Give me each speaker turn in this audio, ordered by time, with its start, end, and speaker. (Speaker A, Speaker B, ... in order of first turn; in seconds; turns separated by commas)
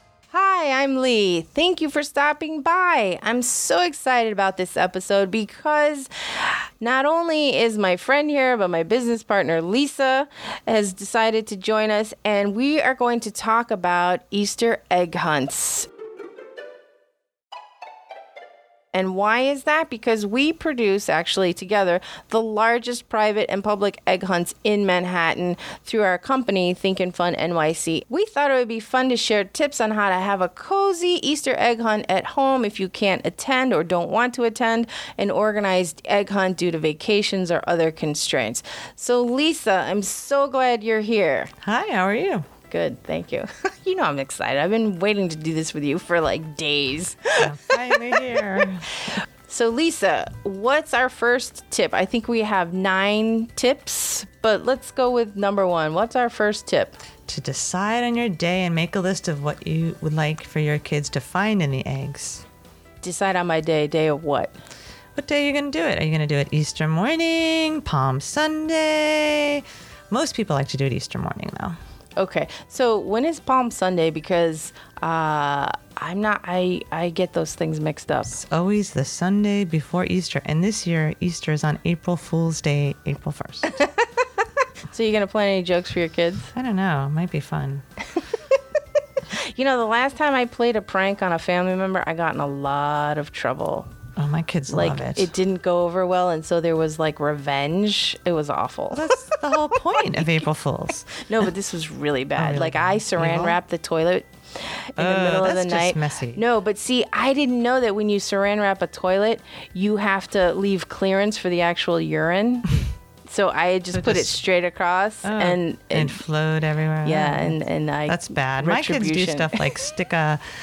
Speaker A: 0.3-15.9, Speaker A: 18.9-41.5, Speaker B: 41.6-42.5, Speaker A: 42.7-47.9, Speaker B: 47.4-48.9, Speaker A: 49.5-57.0, Speaker B: 57.3-62.5, Speaker A: 63.0-64.5, Speaker B: 65.2-71.8, Speaker A: 72.2-78.3, Speaker B: 78.3-83.8, Speaker A: 83.7-86.5, Speaker B: 86.5-87.8, Speaker A: 89.3-93.9, Speaker B: 94.2-95.3, Speaker A: 94.7-99.2, Speaker B: 98.9-101.1, Speaker A: 101.1-116.2, Speaker B: 102.4-103.6, Speaker B: 105.0-106.4, Speaker B: 113.9-114.4, Speaker B: 115.2-120.4, Speaker A: 117.0-119.8